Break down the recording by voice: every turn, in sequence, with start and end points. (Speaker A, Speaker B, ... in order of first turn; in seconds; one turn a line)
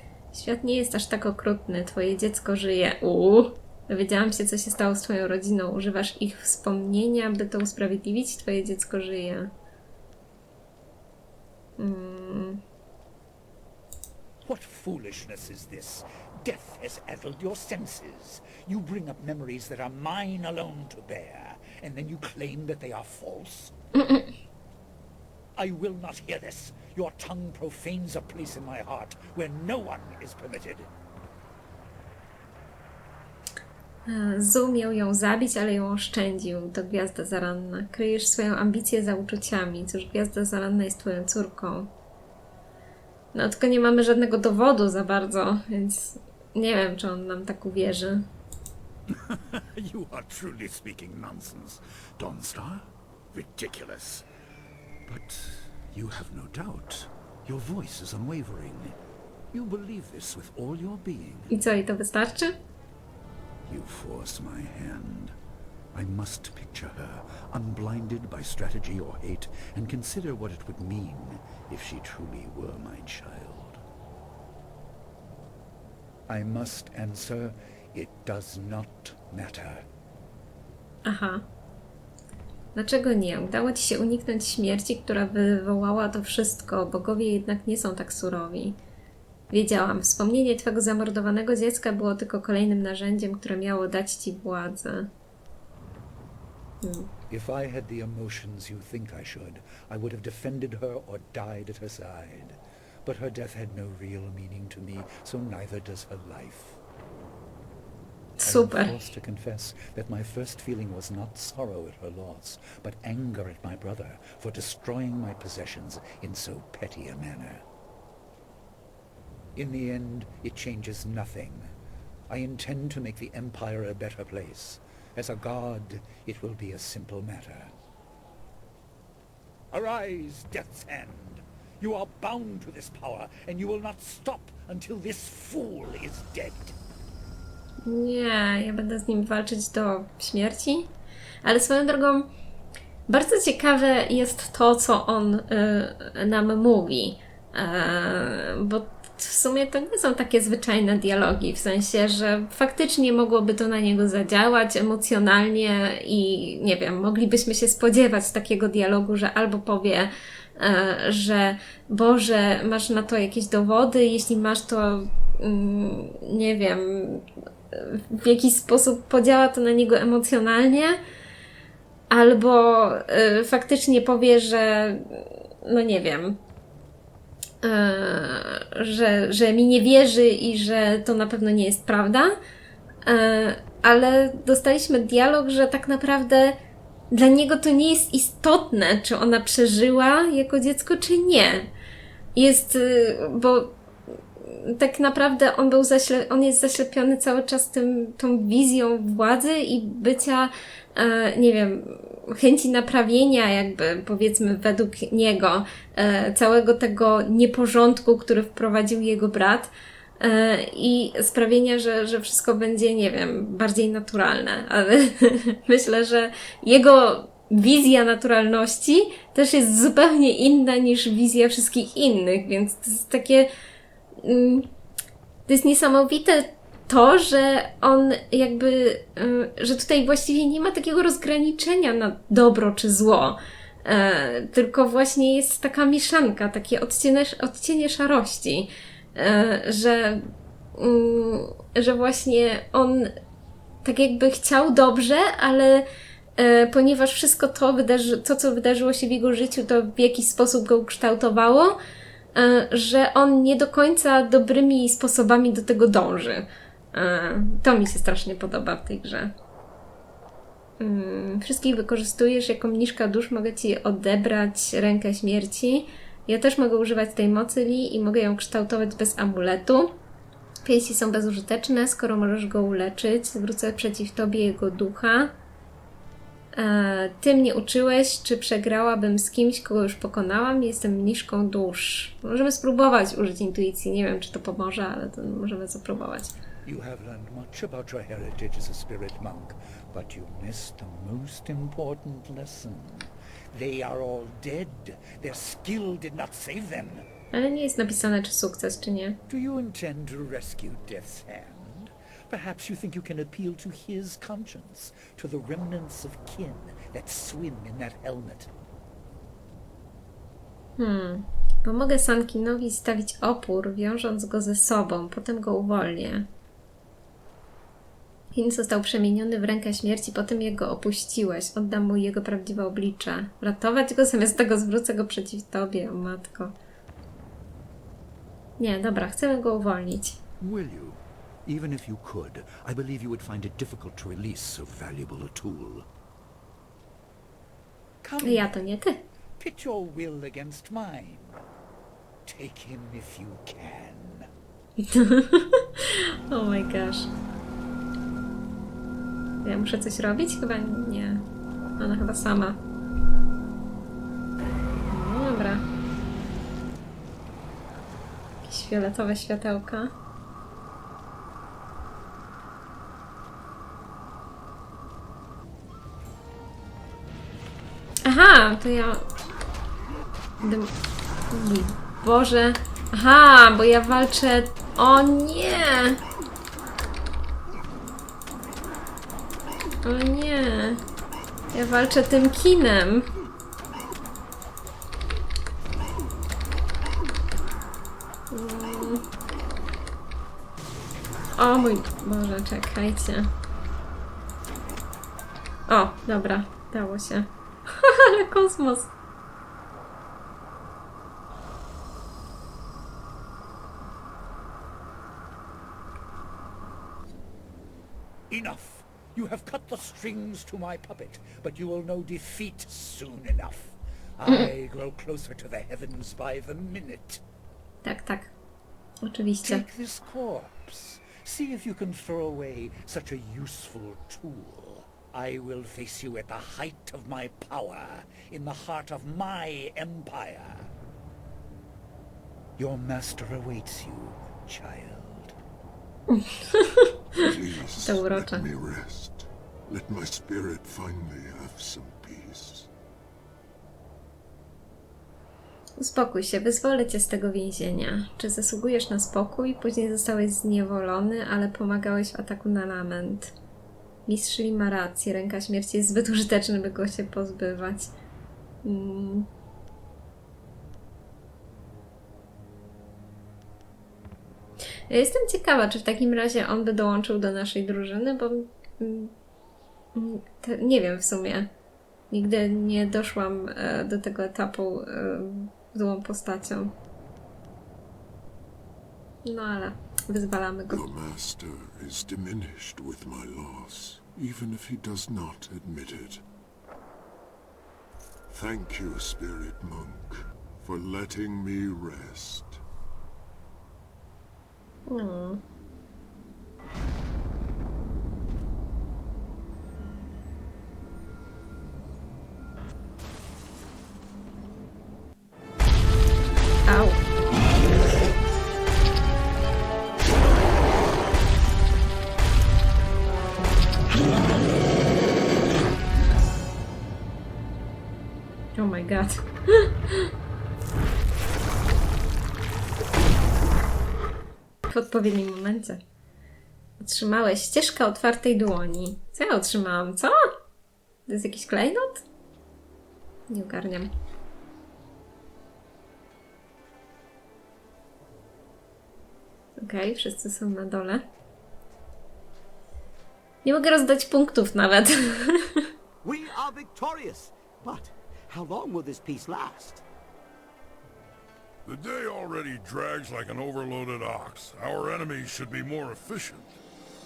Speaker A: 0.3-9.5
Speaker A: 11.8-12.6
Speaker B: 14.4-23.7
Speaker A: 23.9-24.2
Speaker B: 25.6-30.9
Speaker A: 34.0-41.9
Speaker A: 43.3-48.3
Speaker B: 49.1-54.2
Speaker B: 55.1-59.0
Speaker B: 59.5-61.6
Speaker A: 61.5-62.5
Speaker B: 63.7-65.3
Speaker B: 65.9-73.8
Speaker B: 76.3-79.9
Speaker A: 81.0-81.4
Speaker A: 82.7-88.8
Speaker A: 89.5-95.1
Speaker A: 96.8-97.1
Speaker B: 97.3-106.8
Speaker A: 108.4-108.9
Speaker B: 108.4-117.6
Speaker B: 119.5-121.7
Speaker B: 122.3-127.7
Speaker B: 129.7-136.8
Speaker A: 137.8-140.9
Speaker A: 141.4-142.3
Speaker A: 143.1-171.0
Speaker A: 172.1-176.4
Speaker A: 177.6-182.3
Speaker A: 183.0-186.6
Speaker A: 187.1-191.7
Speaker A: 192.3-193.8
Speaker A: 194.4-223.5
Speaker A: 224.2-224.7
Speaker A: 225.5-243.1
Speaker A: 243.8-245.8
Speaker A: 246.4-251.8
Speaker A: 252.3-259.3
Speaker A: 260.8-270.0
Speaker A: 270.6-275.3
Speaker A: 276.5-286.3
Speaker B: 286.6-297.0
Speaker A: 297.3-299.2
Speaker B: 299.3-308.5
Speaker A: 310.8-316.3
Speaker A: 318.3-326.5
Speaker A: 328.6-330.2
Speaker B: 330.4-335.9
Speaker B: 338.0-338.5
Speaker A: 338.2-339.0
Speaker B: 339.4-341.4
Speaker B: 342.2-344.3
Speaker A: 344.8-347.1
Speaker A: 349.4-351.2
Speaker A: 351.8-352.6
Speaker A: 354.9-355.6
Speaker A: 358.4-359.9
Speaker A: 368.0-369.0
Speaker A: 370.4-370.7
Speaker A: 371.3-376.0
Speaker A: 379.8-380.8
Speaker A: 381.5-383.1
Speaker A: 388.3-389.1
Speaker A: 391.4-393.3
Speaker A: 395.7-398.9
Speaker B: 408.3-417.2
Speaker A: 417.8-418.3
Speaker A: 419.0-419.6
Speaker B: 419.4-430.7
Speaker B: 432.6-435.4
Speaker A: 436.1-437.2
Speaker C: 437.1-442.7
Speaker A: 437.8-438.4
Speaker A: 445.8-453.3
Speaker A: 454.1-457.9
Speaker A: 458.6-459.3
Speaker A: 464.9-469.1
Speaker A: 469.9-471.5
Speaker A: 472.1-476.7
Speaker A: 479.2-480.8
Speaker C: 480.7-486.2
Speaker C: 488.3-492.6
Speaker A: 494.9-495.4
Speaker A: 506.6-507.0
Speaker A: 518.6-520.1
Speaker A: 524.7-525.8
Speaker A: 526.8-530.1
Speaker A: 531.0-532.0
Speaker A: 533.3-533.9
Speaker A: 539.6-541.0
Speaker A: 543.4-545.7
Speaker D: 546.0-549.8
Speaker E: 551.6-556.6